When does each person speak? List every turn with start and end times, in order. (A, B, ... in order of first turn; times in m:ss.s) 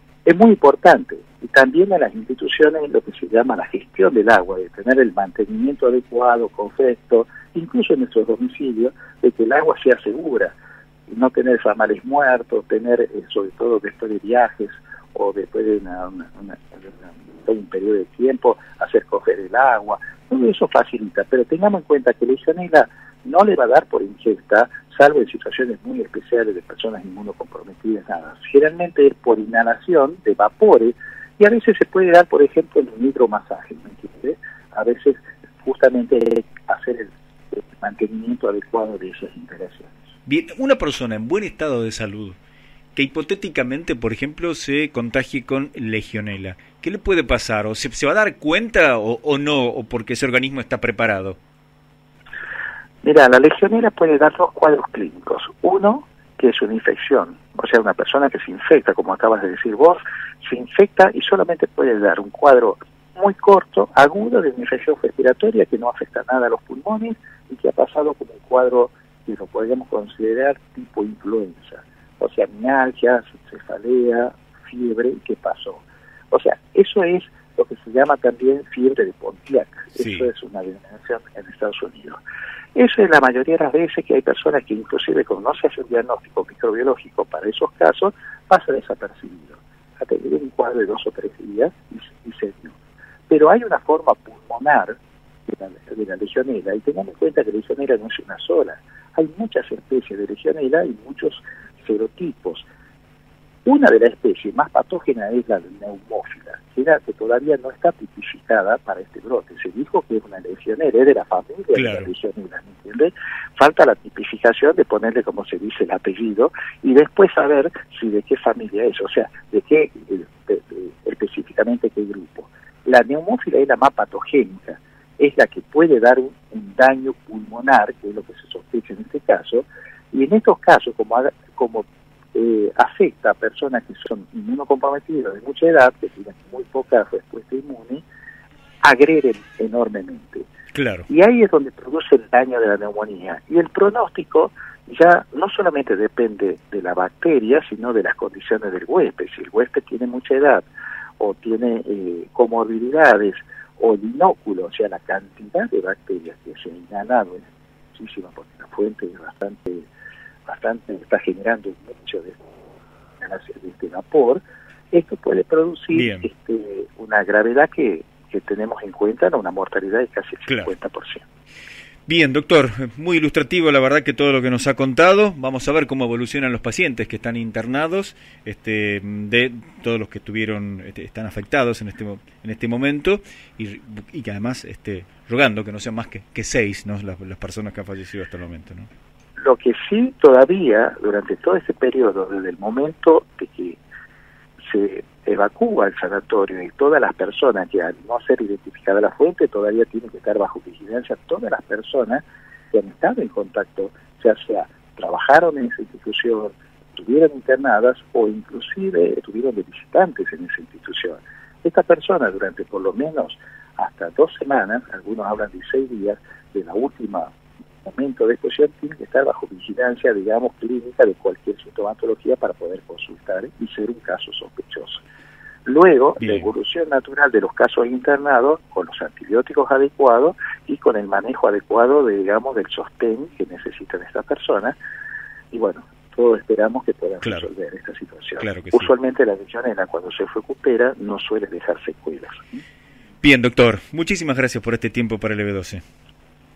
0:00.2-0:10.5 A
0:11.1-0:39.9 A
0:40.2-0:42.4 B
0:43.0-0:51.4 B
0:53.0-1:22.2 A
1:20.0-1:20.3 B
1:22.8-1:32.8 A
1:33.3-1:42.7 A
1:43.6-2:18.0 A
1:51.8-1:52.1 B
2:18.8-2:20.5 A
2:20.7-2:21.1 B
2:21.1-2:30.7 A
2:31.2-2:39.9 A
2:40.5-2:42.4 A
2:43.2-2:51.2 A
2:45.9-2:46.3 B
2:50.5-2:50.7 B
2:52.1-3:08.9 B
3:09.4-3:13.8 A
3:14.6-3:45.0 A
3:45.6-3:54.8 A
3:46.2-3:46.5 B
3:55.5-4:02.6 A
3:58.4-3:58.9 B
4:03.2-4:05.8 B